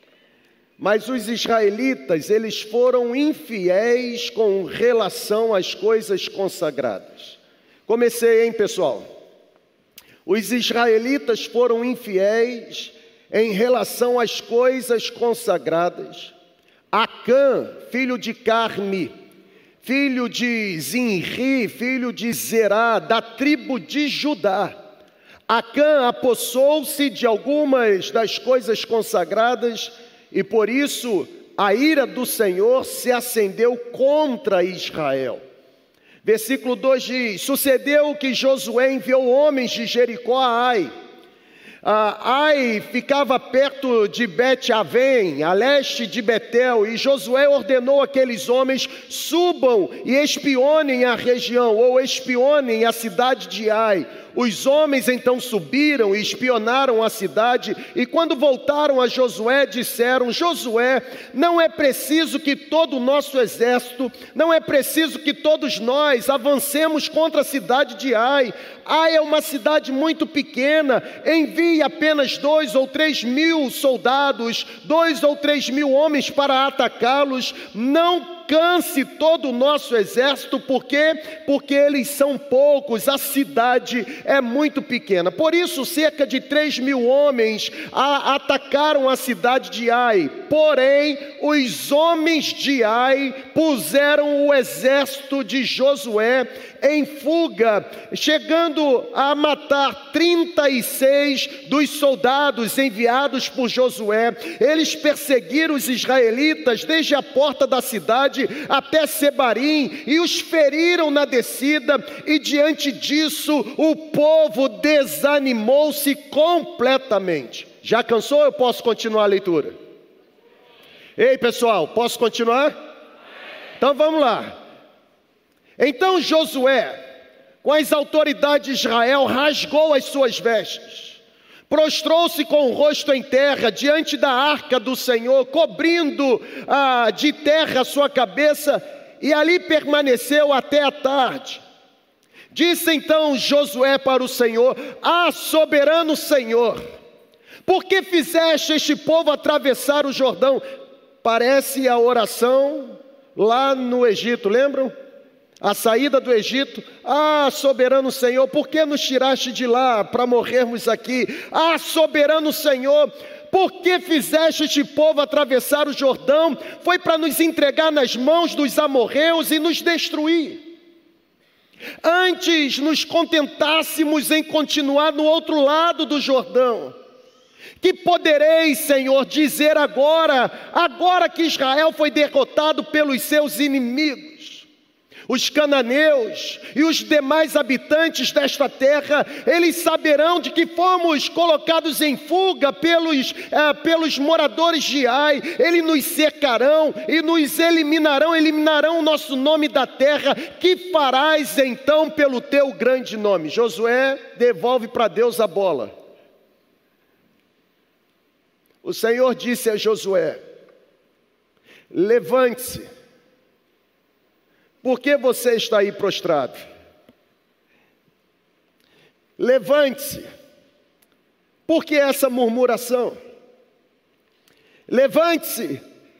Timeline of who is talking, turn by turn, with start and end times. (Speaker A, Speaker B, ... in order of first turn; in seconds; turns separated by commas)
Speaker A: 0.8-9.1, Speaker A: 10.2-16.3, Speaker A: 16.9-19.1, Speaker A: 19.8-24.8, Speaker A: 25.5-35.4, Speaker A: 36.2-40.9, Speaker A: 41.8-119.7, Speaker A: 121.2-122.7, Speaker A: 123.8-124.6, Speaker A: 125.8-127.0, Speaker A: 127.6-141.6, Speaker A: 142.5-146.8, Speaker A: 147.7-150.6, Speaker A: 151.2-154.9, Speaker A: 155.6-170.6, Speaker A: 172.0-176.9, Speaker A: 177.8-184.7, Speaker A: 185.3-205.9, Speaker A: 208.8-210.4, Speaker A: 211.9-212.9, Speaker A: 214.8-216.6, Speaker A: 219.4-220.3, Speaker A: 221.7-223.2, Speaker A: 224.9-225.8